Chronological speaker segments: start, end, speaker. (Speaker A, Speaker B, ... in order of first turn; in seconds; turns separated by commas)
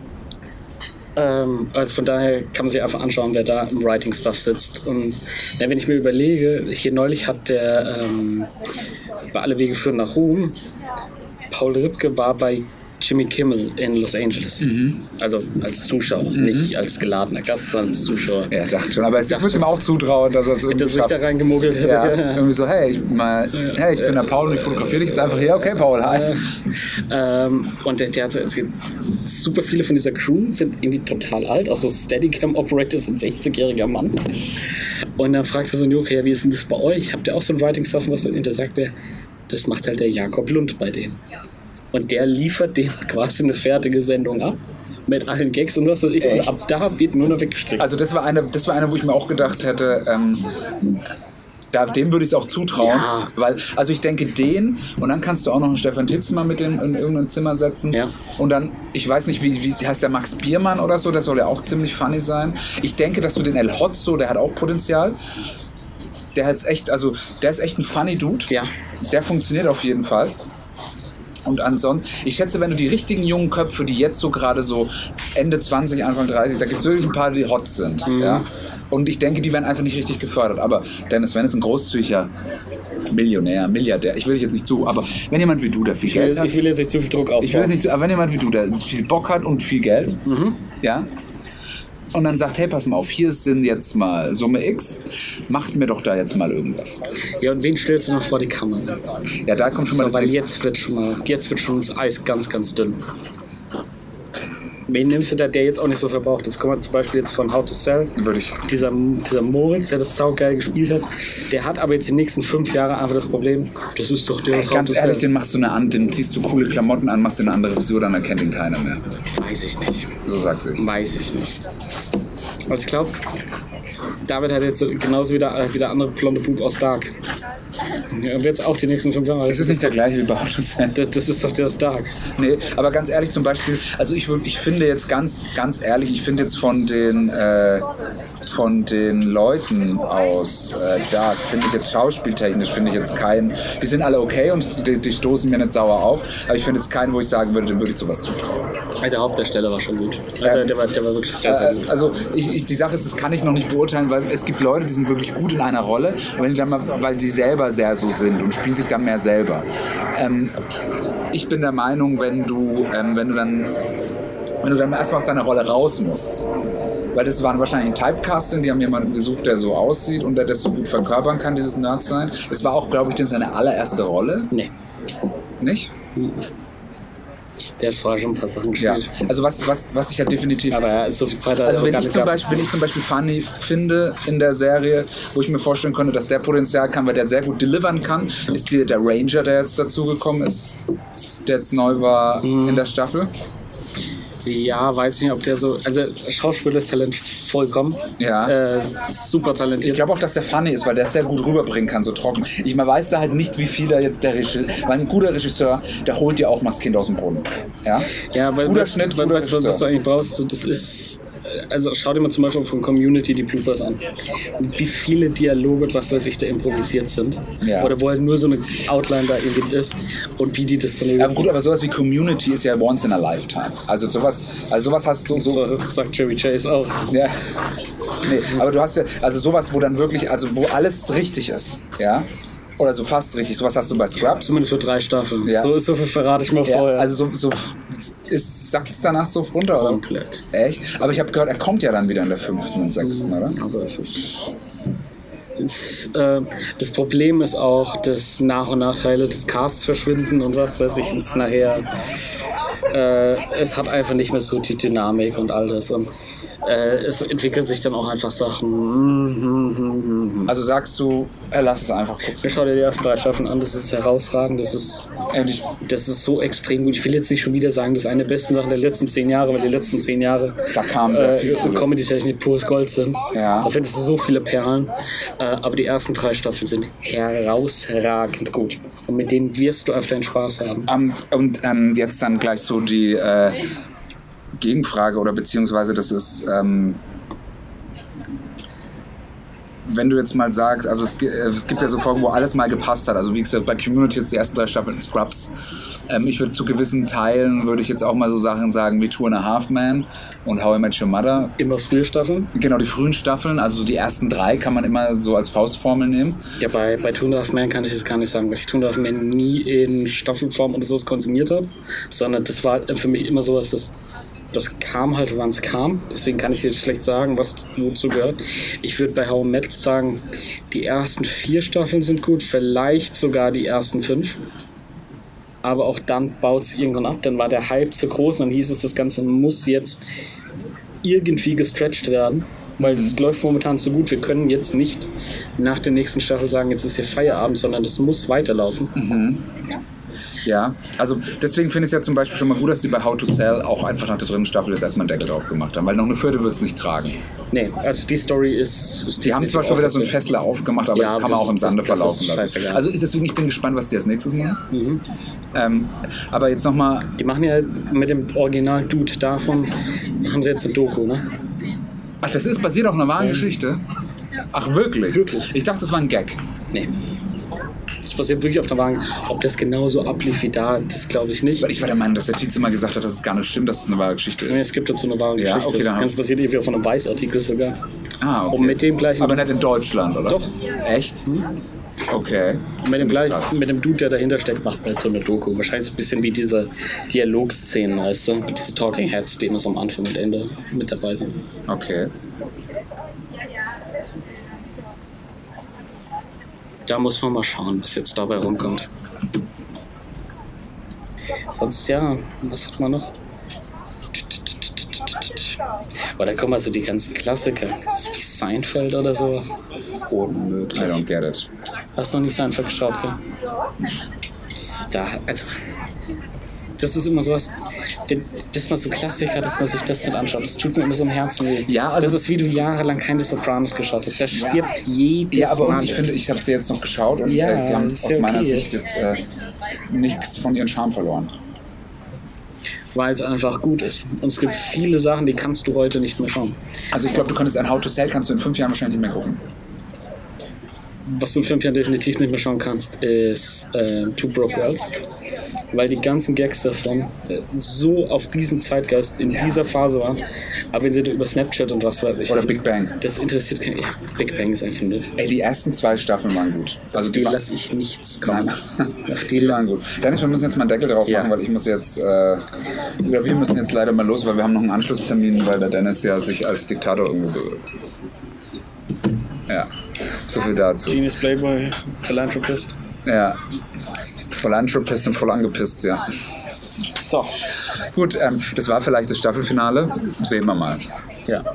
Speaker A: 1.2-8.5, Speaker A: 9.3-10.6, Speaker A: 11.5-18.5, Speaker B: 14.6-15.0, Speaker B: 16.3-16.8, Speaker B: 18.5-21.2, Speaker A: 19.3-19.7, Speaker A: 20.7-22.5, Speaker B: 21.8-26.4, Speaker A: 23.6-25.4, Speaker A: 26.0-38.9, Speaker A: 39.5-41.2, Speaker A: 41.9-47.9, Speaker B: 46.2-46.6, Speaker B: 47.8-50.6, Speaker B: 51.7-65.2, Speaker A: 52.8-53.3, Speaker B: 66.3-68.5, Speaker B: 69.0-70.3, Speaker B: 71.5-82.3, Speaker A: 78.1-78.5, Speaker B: 83.1-86.5, Speaker A: 86.0-87.8, Speaker B: 87.4-90.2, Speaker A: 90.3-90.6, Speaker B: 90.8-91.1, Speaker B: 92.1-97.0, Speaker A: 97.4-99.0, Speaker B: 99.5-100.5, Speaker A: 99.9-103.0, Speaker A: 104.9-115.3, Speaker B: 108.2-108.7, Speaker B: 114.5-119.1, Speaker A: 119.3-120.2, Speaker B: 120.2-120.8, Speaker A: 120.8-121.6, Speaker A: 122.7-123.2, Speaker A: 124.2-127.2, Speaker A: 128.1-130.1, Speaker B: 129.5-131.0, Speaker A: 130.9-132.2, Speaker B: 132.4-137.9, Speaker B: 138.5-148.6, Speaker A: 149.0-151.9, Speaker B: 150.4-150.8, Speaker B: 151.4-160.6, Speaker B: 161.3-163.8, Speaker B: 164.6-166.5, Speaker B: 167.1-174.5, Speaker B: 175.6-175.9, Speaker A: 176.2-176.5, Speaker A: 177.8-179.2, Speaker B: 178.8-180.8, Speaker A: 180.7-182.7, Speaker B: 181.6-190.8, Speaker B: 191.5-193.3, Speaker A: 192.4-192.8, Speaker A: 194.4-200.1, Speaker B: 198.2-198.6, Speaker B: 199.8-209.8, Speaker A: 208.2-221.5, Speaker B: 217.6-217.9, Speaker B: 221.2-225.7, Speaker A: 225.3-227.1, Speaker B: 227.1-227.4, Speaker B: 228.1-232.3, Speaker B: 232.8-234.6, Speaker A: 234.3-237.1, Speaker B: 235.4-235.7, Speaker B: 236.7-240.0, Speaker A: 239.8-240.4, Speaker B: 240.5-243.6, Speaker A: 243.0-244.5, Speaker A: 245.6-251.9, Speaker A: 252.9-256.1, Speaker A: 256.6-260.5, Speaker B: 260.5-262.6, Speaker A: 262.4-265.2, Speaker B: 265.3-265.8, Speaker A: 265.8-280.9, Speaker B: 270.7-272.0, Speaker B: 273.3-273.7, Speaker B: 280.9-283.6, Speaker B: 284.6-287.0, Speaker B: 289.9-295.5, Speaker B: 296.1-301.5, Speaker A: 301.6-302.5, Speaker B: 302.5-306.5, Speaker A: 306.6-314.0, Speaker A: 314.5-324.4, Speaker A: 325.6-330.0, Speaker A: 331.0-338.9, Speaker B: 332.8-333.2, Speaker B: 338.9-339.6, Speaker B: 340.4-347.2, Speaker A: 347.5-350.2, Speaker B: 349.2-354.6, Speaker A: 350.9-352.9, Speaker A: 354.7-355.0, Speaker B: 355.5-357.1, Speaker A: 357.2-361.3, Speaker B: 362.2-363.8, Speaker A: 363.2-363.5, Speaker B: 364.5-366.4, Speaker A: 365.1-365.5, Speaker A: 366.7-367.0, Speaker A: 368.0-371.7, Speaker B: 371.6-374.7, Speaker A: 374.5-377.8, Speaker B: 375.4-376.1, Speaker B: 378.2-381.2, Speaker A: 378.5-379.5, Speaker B: 382.1-383.5, Speaker A: 382.8-391.4, Speaker B: 391.7-392.1, Speaker A: 396.9-398.9, Speaker A: 401.5-403.1, Speaker A: 404.1-405.6, Speaker A: 406.1-409.5, Speaker B: 410.1-411.5, Speaker A: 410.7-411.0, Speaker A: 412.0-413.2, Speaker A: 414.5-415.6, Speaker A: 416.8-417.5, Speaker A: 418.1-426.2, Speaker B: 421.6-422.2, Speaker B: 425.3-429.2, Speaker A: 427.2-428.8, Speaker B: 429.9-431.3, Speaker A: 432.9-436.6, Speaker B: 436.9-439.4, Speaker A: 441.1-444.9, Speaker A: 445.7-450.2, Speaker A: 450.7-455.1, Speaker B: 452.3-453.0, Speaker B: 455.1-457.4, Speaker A: 457.0-459.7, Speaker B: 458.3-462.4, Speaker B: 463.0-467.7, Speaker B: 470.2-471.0, Speaker A: 470.8-472.8, Speaker B: 473.1-473.4, Speaker B: 474.3-476.1, Speaker A: 477.0-477.4, Speaker B: 477.9-480.9